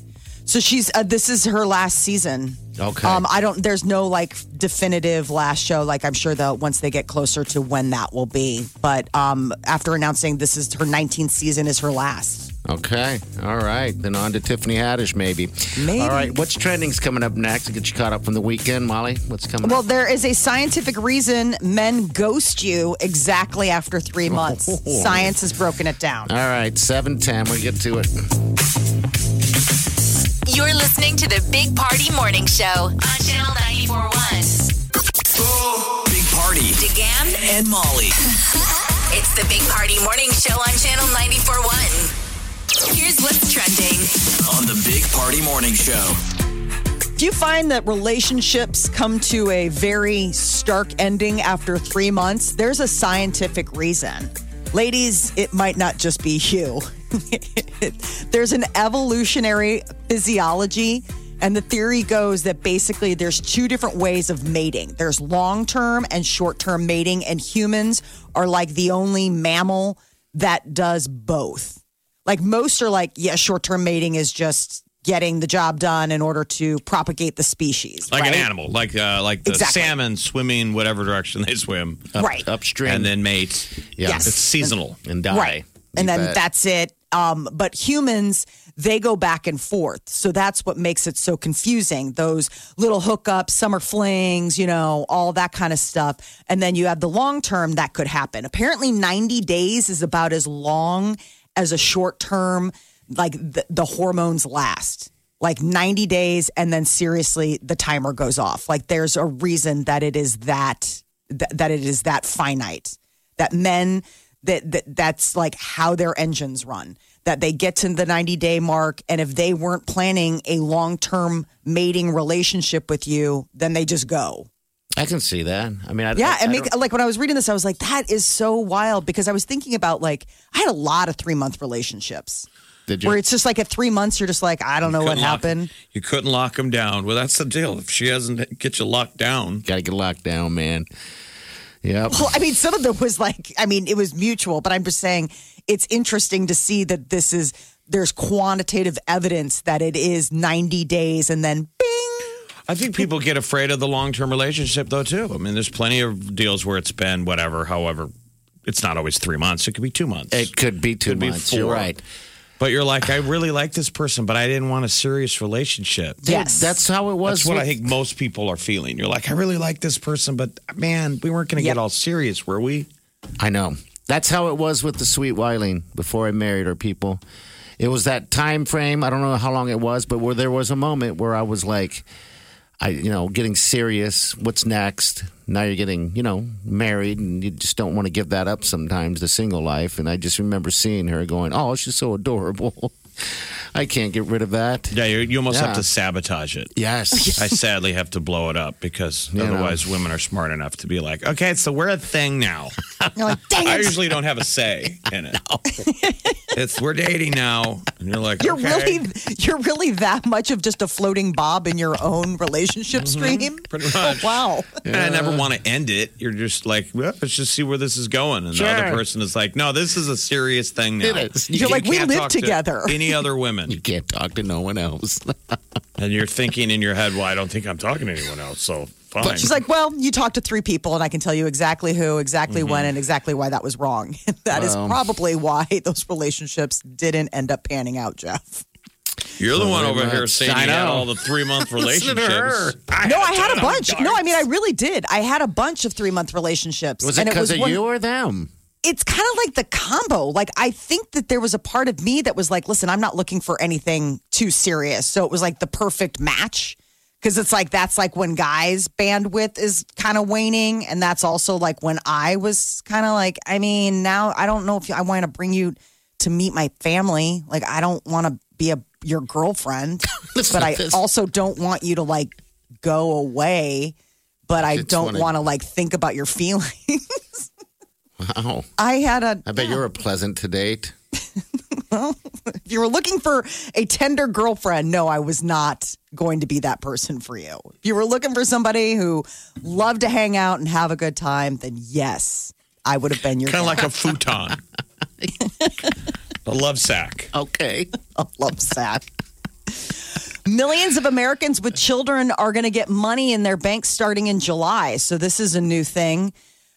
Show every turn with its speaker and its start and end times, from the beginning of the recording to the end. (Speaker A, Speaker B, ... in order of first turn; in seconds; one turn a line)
Speaker A: 0.5-12.5
Speaker B: 2.8-3.2
Speaker B: 12.7-19.9
Speaker A: 15.8-16.3
Speaker A: 19.6-26.3
Speaker B: 24.3-25.4
Speaker B: 26.3-28.3
Speaker C: 30.5-34.7
Speaker D: 35.9-36.8
Speaker C: 36.8-37.4
Speaker D: 37.4-38.2
Speaker C: 39.1-42.1
Speaker C: 42.9-44.2
Speaker D: 44.5-46.2
Speaker A: 47.2-78.5
Speaker E: 78.1-82.1
Speaker A: 79.5-80.0
Speaker B: 82.1-83.2
Speaker A: 82.2-82.5
Speaker E: 82.9-83.7
Speaker B: 84.0-84.3
Speaker A: 84.0-84.7
Speaker E: 84.2-85.0
Speaker B: 85.0-86.4
Speaker A: 85.3-124.5
Speaker B: 125.0-126.7
Speaker A: 126.2-132.5
Speaker B: 132.9-133.2
Speaker A: 133.1-135.7
Speaker E: 134.8-139.6
Speaker B: 139.7-140.9
Speaker B: 141.8-142.3
Speaker A: 142.1-152.4
Speaker E: 152.7-158.1
Speaker E: 158.7-160.5
Speaker B: 160.3-162.0
Speaker E: 161.1-161.9
Speaker E: 162.6-166.2
Speaker B: 166.2-167.8
Speaker A: 166.3-166.7
Speaker E: 167.3-172.9
Speaker B: 173.4-177.2
Speaker B: 177.8-182.1
Speaker B: 182.8-195.0
Speaker E: 194.9-196.7
Speaker B: 195.5-195.8
Speaker B: 196.8-197.4
Speaker A: 197.2-197.4
Speaker E: 197.4-202.8
Speaker B: 199.3-199.8
Speaker A: 203.2-204.0
Speaker E: 203.6-205.4
Speaker A: 205.8-206.3
Speaker E: 206.5-209.0
Speaker A: 208.4-214.7
Speaker E: 213.0-223.8
Speaker B: 214.8-215.5
Speaker B: 218.5-219.0
Speaker B: 221.0-221.9
Speaker A: 221.5-223.0
Speaker B: 223.7-225.6
Speaker E: 226.0-229.5
Speaker A: 229.2-238.7
Speaker E: 232.5-232.9
Speaker B: 234.5-235.0
Speaker E: 239.4-244.3
Speaker B: 239.5-242.9
Speaker A: 243.1-247.8
Speaker B: 247.0-248.5
Speaker A: 248.8-273.9
Speaker B: 270.2-271.0
Speaker A: 274.5-277.0
Speaker B: 274.6-275.3
Speaker B: 278.2-278.7
Speaker A: 278.8-279.7
Speaker B: 279.5-280.9
Speaker A: 281.9-293.9
Speaker E: 293.5-294.6
Speaker E: 296.4-297.3
Speaker B: 297.3-297.9
Speaker A: 298.2-299.1
Speaker A: 300.5-306.3